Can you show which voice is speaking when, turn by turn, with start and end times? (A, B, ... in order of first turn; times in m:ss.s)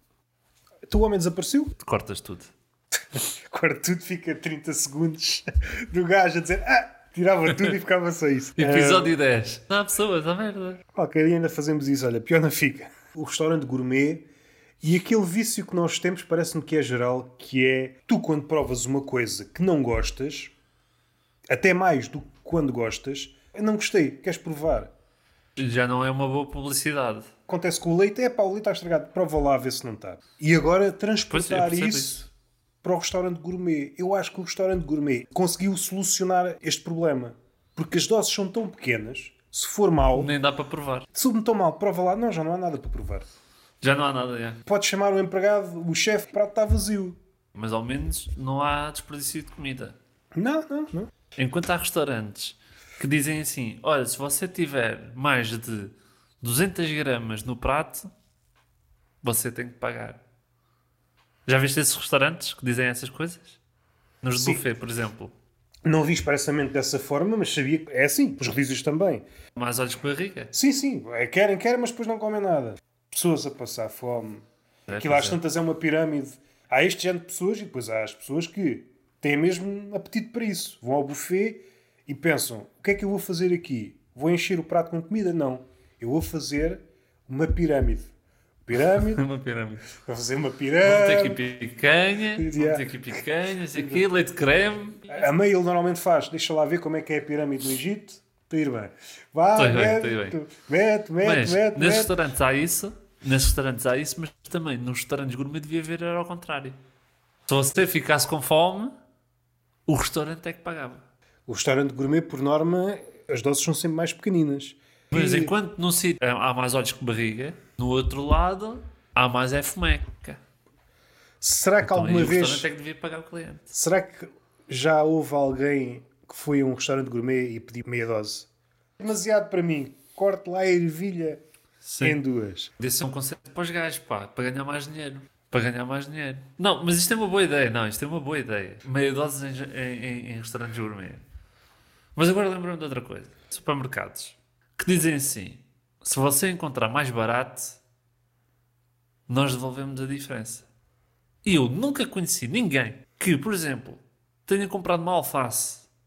0:00.9-0:01.7 A
0:01.8-0:02.5 B
0:03.1-0:09.1 A
0:08.6-0:10.8 B
0:10.9-0:14.3 A
0:14.8-0:20.5 A
0:21.5-0:24.9 A
0:25.6-0:27.3 B
0:27.5-0:32.3 A
0:31.3-0:32.2 B
0:32.8-0:40.3 A
0:40.1-0:41.1 B
0:41.1-0:43.3 A
0:43.8-0:44.6 B
0:44.6-0:47.2 A
0:47.6-0:50.0 B
0:50.3-0:51.1 A
0:51.4-0:58.1 B
0:59.2-1:00.2 B
1:01.4-1:03.6 B
1:04.2-1:05.3 B
1:05.8-1:09.2 A
1:09.6-1:10.5 B
1:10.5-1:14.4 A
1:14.9-1:15.4 B
1:15.0-1:28.1 A
1:28.6-1:29.2 A
1:28.9-1:29.8 B
1:29.9-1:31.4 A
1:30.8-1:35.1 B
1:32.4-1:32.9 A
1:33.7-1:34.0 A
1:35.1-1:42.1 A
1:39.6-1:40.4 B
1:41.2-1:46.8 B
1:47.5-1:48.9 B
1:49.9-1:51.0 B
1:51.5-1:55.5 A
1:55.1-2:00.4 B
2:01.4-2:02.7 A
2:01.8-2:03.7 B
2:03.7-2:08.5 A
2:09.0-2:11.4 A
2:11.8-2:12.2 B
2:12.0-2:12.7 A
2:12.8-2:21.2 B
2:22.1-2:27.8 B
2:29.3-2:30.7 B
2:31.4-2:35.9 B